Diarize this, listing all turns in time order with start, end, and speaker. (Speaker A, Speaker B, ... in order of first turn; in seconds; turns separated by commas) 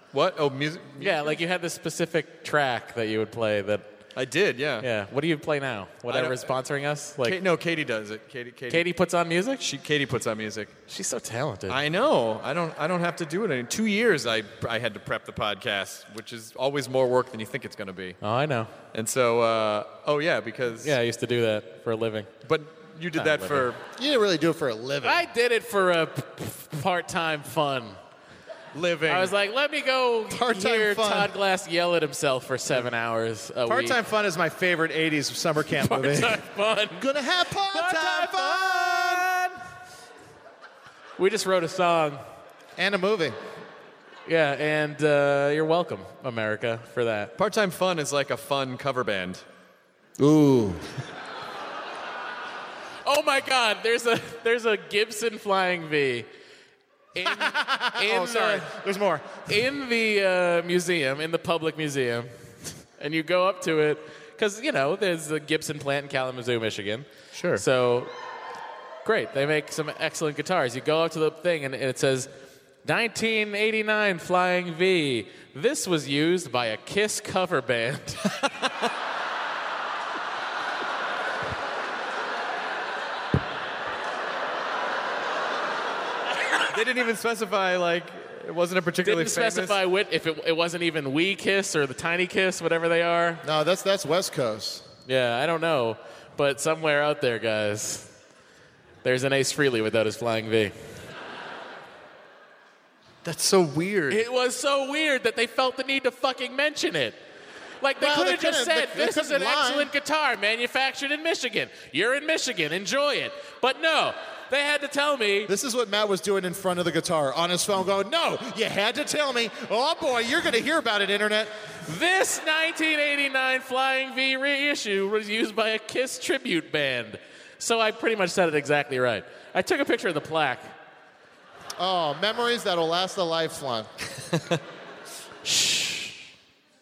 Speaker A: 0.1-1.3, Speaker B: 1.0-3.9, Speaker A: 4.1-4.9, Speaker B: 4.8-7.4, Speaker A: 6.1-6.5, Speaker A: 7.2-8.9, Speaker B: 8.7-9.6, Speaker A: 9.6-10.7, Speaker B: 10.9-11.8, Speaker A: 11.7-18.2, Speaker B: 18.2-18.7, Speaker A: 18.9-20.9, Speaker B: 20.8-22.3, Speaker A: 22.4-23.8, Speaker B: 23.1-23.7, Speaker C: 24.0-25.2, Speaker B: 25.0-28.0, Speaker A: 28.7-29.3, Speaker B: 29.1-34.0, Speaker C: 30.3-31.3, Speaker C: 33.6-36.4, Speaker B: 35.8-37.0, Speaker C: 36.9-39.3, Speaker B: 37.7-38.5, Speaker A: 37.9-39.5, Speaker B: 41.2-42.2, Speaker C: 42.8-43.4, Speaker B: 44.2-47.3, Speaker A: 47.4-49.4, Speaker C: 50.2-50.8, Speaker B: 53.0-56.3, Speaker B: 57.1-58.7, Speaker C: 57.2-59.4, Speaker B: 59.5-62.3, Speaker B: 63.0-68.1, Speaker B: 69.0-72.3, Speaker B: 72.8-78.3, Speaker A: 86.7-89.8, Speaker B: 89.0-93.4, Speaker C: 93.4-94.8, Speaker B: 95.0-98.1, Speaker B: 99.0-100.7, Speaker A: 103.2-104.2, Speaker B: 104.1-107.2, Speaker B: 107.8-115.5, Speaker C: 108.0-109.9, Speaker C: 115.5-121.5, Speaker B: 121.8-130.7, Speaker C: 131.8-133.9, Speaker B: 135.4-136.2